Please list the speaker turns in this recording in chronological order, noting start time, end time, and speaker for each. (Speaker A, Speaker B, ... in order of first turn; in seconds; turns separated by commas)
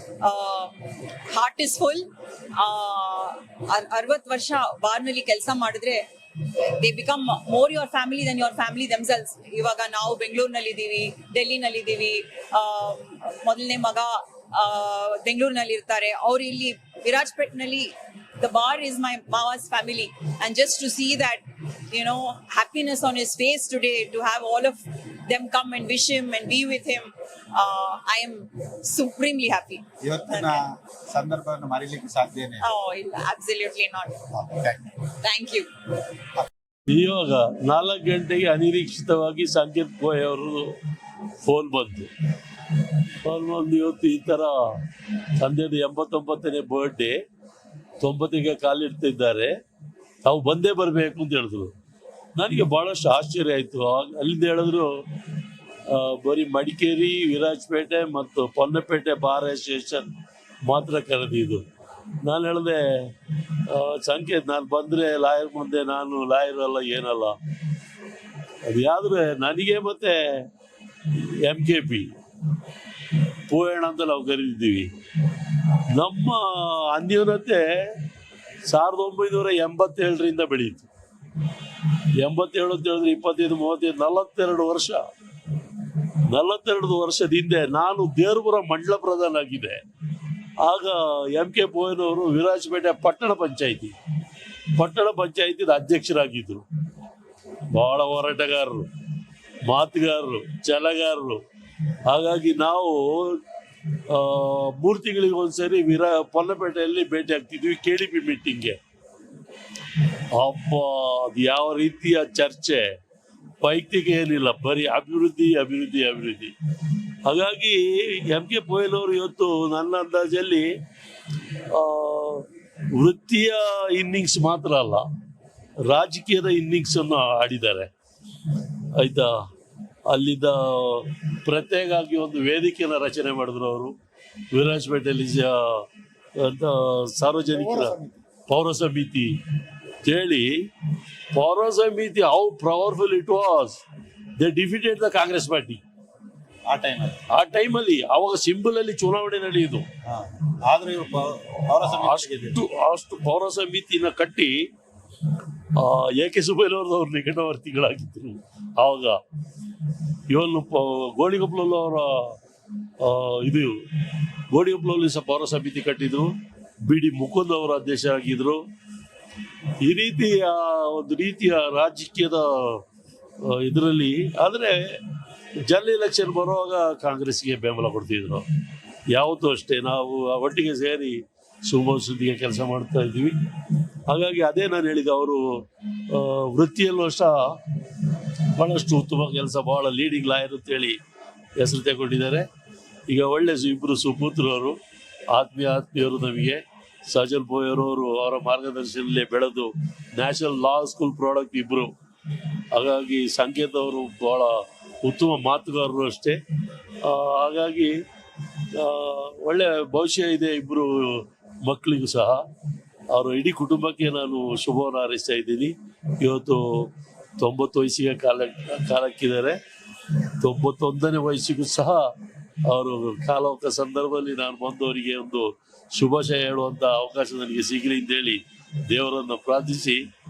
Speaker A: 0.2-30.6, Speaker B: 30.0-32.7, Speaker A: 32.6-34.2, Speaker B: 34.3-35.0, Speaker A: 35.2-35.7, Speaker C: 36.9-40.8, Speaker C: 41.5-42.1, Speaker C: 43.2-44.5, Speaker C: 45.4-47.2, Speaker C: 48.0-49.5, Speaker C: 50.2-51.7, Speaker C: 52.4-54.9, Speaker C: 55.9-60.1, Speaker C: 60.7-61.6, Speaker C: 62.2-63.1, Speaker C: 63.7-67.4, Speaker C: 68.7-70.5, Speaker C: 71.1-72.1, Speaker C: 73.5-74.9, Speaker C: 75.9-78.0, Speaker C: 78.7-80.9, Speaker C: 82.2-85.0, Speaker C: 86.3-89.8, Speaker C: 90.7-94.0, Speaker C: 94.8-96.7, Speaker C: 97.7-98.9, Speaker C: 99.7-101.4, Speaker C: 102.1-103.4, Speaker C: 104.1-108.8, Speaker C: 110.3-112.8, Speaker C: 113.6-116.5, Speaker C: 117.2-120.7, Speaker C: 121.7-125.0, Speaker C: 125.9-127.9, Speaker C: 129.0-129.3, Speaker C: 130.1-133.9, Speaker C: 134.5-135.9, Speaker C: 136.4-139.3, Speaker C: 140.1-140.5, Speaker C: 141.3-143.8, Speaker C: 144.4-145.8, Speaker B: 146.7-147.2, Speaker C: 147.3-149.9, Speaker B: 150.1-152.6, Speaker C: 151.9-154.5, Speaker C: 155.8-159.2, Speaker C: 160.3-162.4, Speaker C: 163.0-166.3, Speaker C: 166.8-168.6, Speaker C: 169.8-172.8, Speaker C: 173.4-175.0, Speaker C: 175.6-178.4, Speaker C: 179.1-183.4, Speaker C: 184.1-185.4, Speaker C: 186.1-187.3, Speaker C: 188.6-191.0, Speaker C: 191.6-192.5, Speaker C: 193.1-194.8, Speaker C: 195.3-201.9, Speaker C: 202.7-204.5, Speaker C: 205.0-206.4, Speaker C: 207.0-207.9, Speaker C: 208.8-212.4, Speaker C: 213.1-219.6, Speaker C: 220.4-222.0, Speaker C: 222.7-230.0